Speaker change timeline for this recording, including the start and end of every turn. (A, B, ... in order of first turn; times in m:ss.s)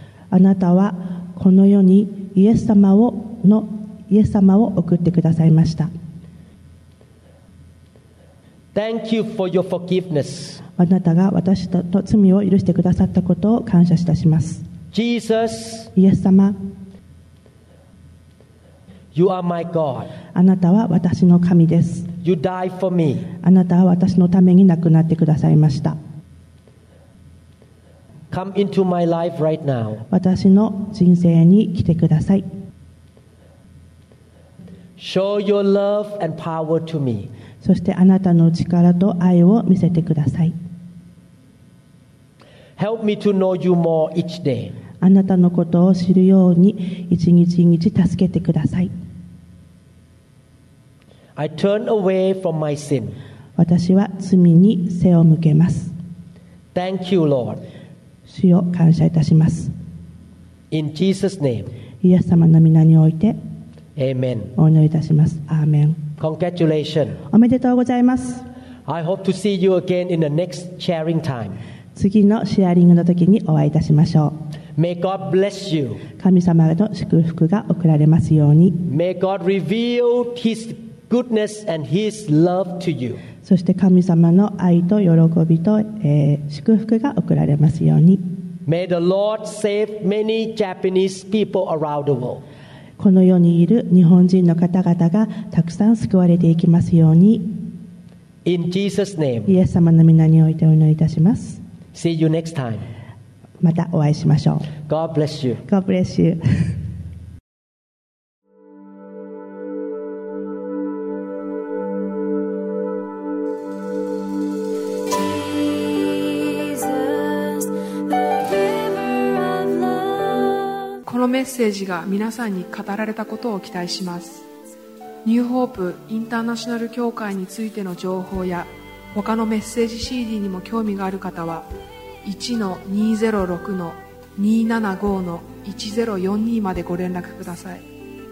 0:00.3-0:05.9 A
0:08.7-0:10.6 B
0:10.8-0:14.6 A
0:14.9-0:15.9 B
0:16.0-0:16.6 A
0:19.1-0:20.1 B
0:20.3-0:22.1 A
0:22.2-0:23.3 B
0:23.4-0:26.0 A
0:28.3-0:30.0 B
0:30.1-0:32.4 A
0:35.0-0:37.3 B
0:37.6-0:40.5 A
0:42.8-0:44.7 B
0:45.0-0:48.9 A
0:51.4-0:53.2 B
0:53.6-0:55.9 A
0:56.7-0:57.6 B
0:58.3-0:59.7 A
1:00.7-1:01.7 B
1:02.0-1:03.4 A
1:04.0-1:04.6 B
1:04.6-1:06.0 A
1:06.2-1:07.2 B
1:07.3-1:08.4 A
1:08.9-1:11.6 B
1:12.0-1:14.4 A
1:14.8-1:16.0 B
1:16.2-1:18.8 A
1:18.9-1:23.2 B
1:23.4-1:28.2 A
1:28.7-1:32.4 B
1:33.0-1:37.6 A
1:38.4-1:39.5 B
1:39.5-1:41.6 A
1:41.9-1:42.8 B
1:43.6-1:44.7 A
1:44.9-1:45.6 B
1:45.7-1:46.4 A
1:55.1-2:01.0 C
2:01.0-2:04.4 D
2:05.2-2:11.7 D
2:12.2-2:17.8 D